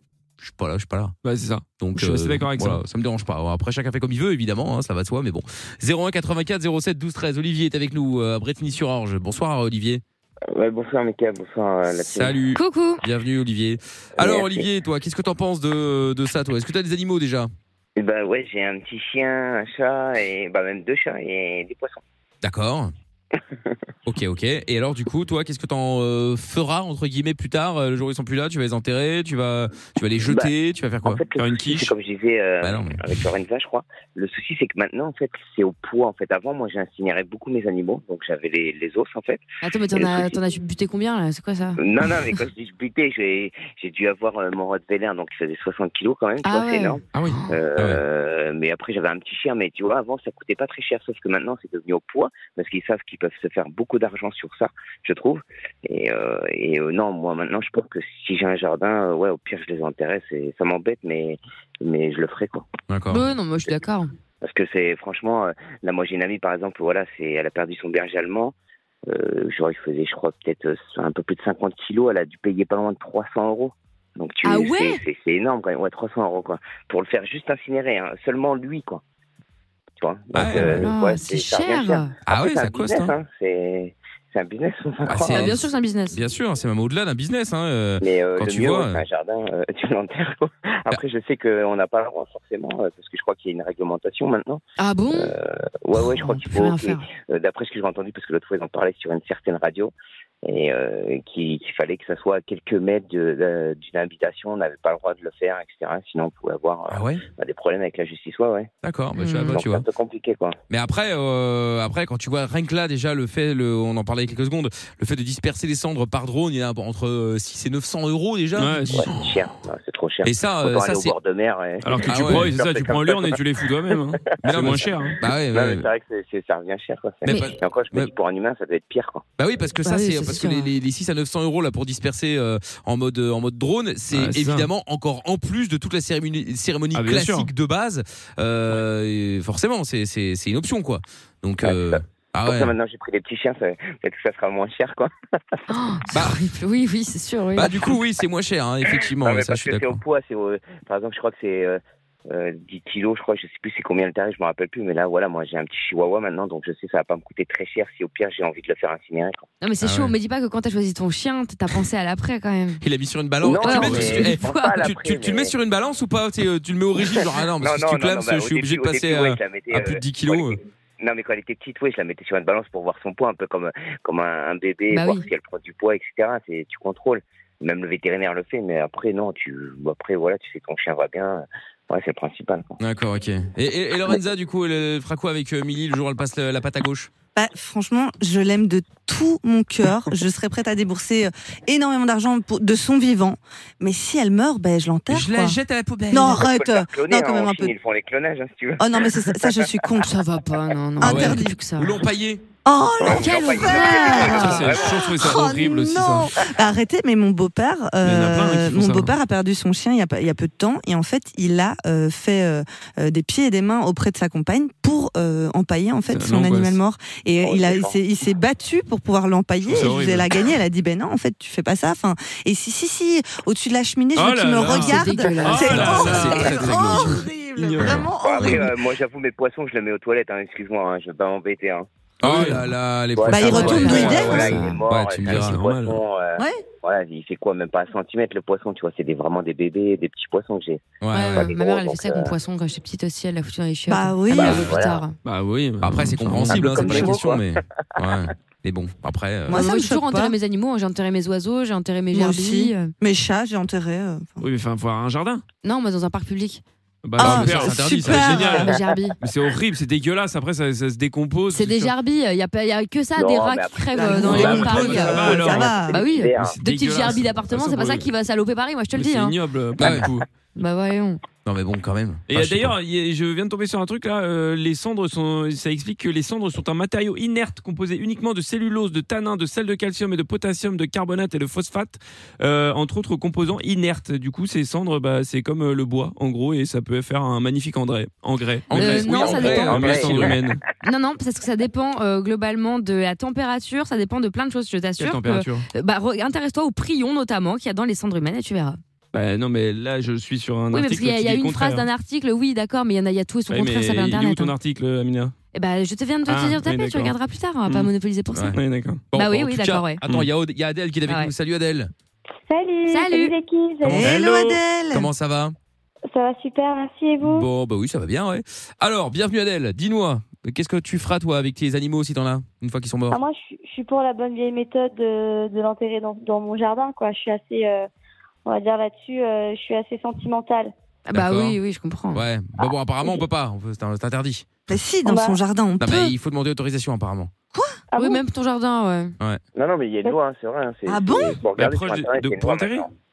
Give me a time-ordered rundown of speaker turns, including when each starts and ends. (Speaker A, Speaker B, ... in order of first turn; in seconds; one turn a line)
Speaker A: 0.4-1.1
Speaker B: 1.2-2.8
Speaker A: 1.8-10.0
Speaker C: 10.5-12.4
Speaker A: 12.1-17.5
Speaker D: 12.5-13.0
Speaker C: 14.2-14.7
Speaker C: 18.0-22.0
Speaker A: 22.4-22.9
Speaker A: 24.1-31.2
Speaker C: 30.2-30.5
Speaker C: 31.0-39.4
Speaker B: 31.4-31.9
Speaker A: 32.6-33.0
Speaker D: 39.6-41.8
Speaker C: 39.9-40.4
Speaker C: 41.8-62.7
Speaker D: 46.4-47.6
Speaker B: 47.1-47.4
Speaker A: 47.8-48.0
Speaker A: 62.9-63.2
Speaker D: 63.1-64.1
Speaker C: 64.4-68.5
Speaker C: 69.1-79.0
Speaker D: 74.4-75.0
Speaker C: 80.0-85.6
Speaker A: 80.3-80.9
Speaker D: 80.4-82.1
Speaker A: 82.2-83.1
Speaker A: 85.1-89.0
Speaker D: 85.2-86.2
Speaker C: 88.0-99.9
Speaker D: 94.8-95.3
Speaker D: 95.9-97.0
Speaker C: 100.4-108.7
Speaker A: 106.9-107.2
Speaker A: 108.8-109.8
Speaker D: 109.2-109.6
Speaker C: 109.5-110.6
Speaker A: 110.7-119.2
Speaker B: 118.5-119.1
Speaker C: 118.9-123.4
Speaker A: 120.2-121.1
Speaker B: 121.8-125.2
Speaker A: 122.0-122.5
Speaker A: 124.4-125.9
Speaker C: 125.5-129.2
Speaker A: 127.2-128.1
Speaker D: 127.2-127.5
Speaker A: 129.4-142.7
Speaker D: 129.8-130.7
Speaker B: 134.1-134.7
Speaker B: 136.9-137.5
Speaker C: 141.6-145.1
Speaker D: 145.7-147.9
Speaker A: 146.1-146.4
Speaker A: 147.6-150.0
Speaker C: 149.2-159.5
Speaker D: 159.6-162.8
Speaker A: 159.8-160.1
Speaker A: 162.8-170.6
Speaker C: 163.4-165.5
Speaker D: 163.6-164.9
Speaker C: 167.6-182.8
Speaker D: 174.9-175.3
Speaker A: 182.8-187.1
Speaker E: 187.3-195.6
Speaker A: 195.1-196.4
Speaker E: 196.1-197.7
Speaker C: 196.3-199.9
Speaker E: 198.8-200.1
Speaker D: 200.0-202.0
Speaker E: 201.0-201.6
Speaker A: 201.0-202.4
Speaker E: 202.7-228.8
Speaker C: 203.0-205.1
Speaker D: 203.1-204.7
Speaker B: 204.3-206.3
Speaker B: 208.0-209.1
Speaker B: 216.1-216.8
Speaker C: 217.4-218.0
Speaker B: 219.7-220.3
Speaker B: 224.1-228.6
Speaker D: 224.7-226.4
Speaker A: 225.6-227.2
Speaker C: 228.2-231.9
Speaker A: 232.2-235.6
Speaker B: 232.2-232.7
Speaker C: 233.1-242.3
Speaker E: 233.3-234.7
Speaker D: 233.5-234.8
Speaker B: 234.1-234.4
Speaker B: 235.2-236.0
Speaker A: 241.0-241.5
Speaker D: 241.1-245.2
Speaker E: 243.9-244.8
Speaker C: 244.3-245.0
Speaker B: 245.2-247.2
Speaker A: 245.8-249.6
Speaker C: 246.5-247.5
Speaker E: 249.5-250.3
Speaker D: 249.5-252.9
Speaker E: 252.1-254.4
Speaker B: 254.4-255.4
Speaker D: 255.6-256.6
Speaker B: 257.0-261.9
Speaker E: 257.2-258.7
Speaker A: 257.2-258.6
Speaker D: 258.1-259.2
Speaker D: 261.5-269.4
Speaker C: 263.1-266.6
Speaker E: 263.9-266.1
Speaker B: 264.1-265.8
Speaker B: 266.4-268.1
Speaker B: 268.9-270.3
Speaker A: 269.8-270.1
Speaker D: 270.6-271.2
Speaker A: 271.4-272.7
Speaker B: 272.3-290.6
Speaker A: 288.7-290.4
Speaker D: 288.7-290.2
Speaker C: 289.3-290.4
Speaker D: 290.8-298.8
Speaker B: 295.0-295.6
Speaker B: 299.1-301.9
Speaker D: 300.7-304.5
Speaker B: 303.5-305.3
Speaker D: 305.5-308.6
Speaker B: 306.3-307.1
Speaker A: 308.3-308.6
Speaker B: 308.5-309.0
Speaker A: 309.1-311.9
Speaker D: 309.1-310.0
Speaker D: 311.1-311.3
Speaker F: 312.5-314.1
Speaker D: 312.9-313.3
Speaker A: 313.8-315.5
Speaker E: 313.8-315.1
Speaker F: 316.1-317.4
Speaker A: 317.2-323.2
Speaker F: 323.1-327.9
Speaker F: 328.4-330.7
Speaker D: 331.1-332.2
Speaker A: 331.1-331.6
Speaker A: 332.1-334.4
Speaker E: 334.7-336.1
Speaker F: 335.0-335.4
Speaker A: 335.8-337.3
Speaker E: 337.5-337.8
Speaker F: 337.9-338.2
Speaker D: 337.9-339.1
Speaker C: 339.5-342.9
Speaker E: 340.9-341.4
Speaker B: 341.5-342.9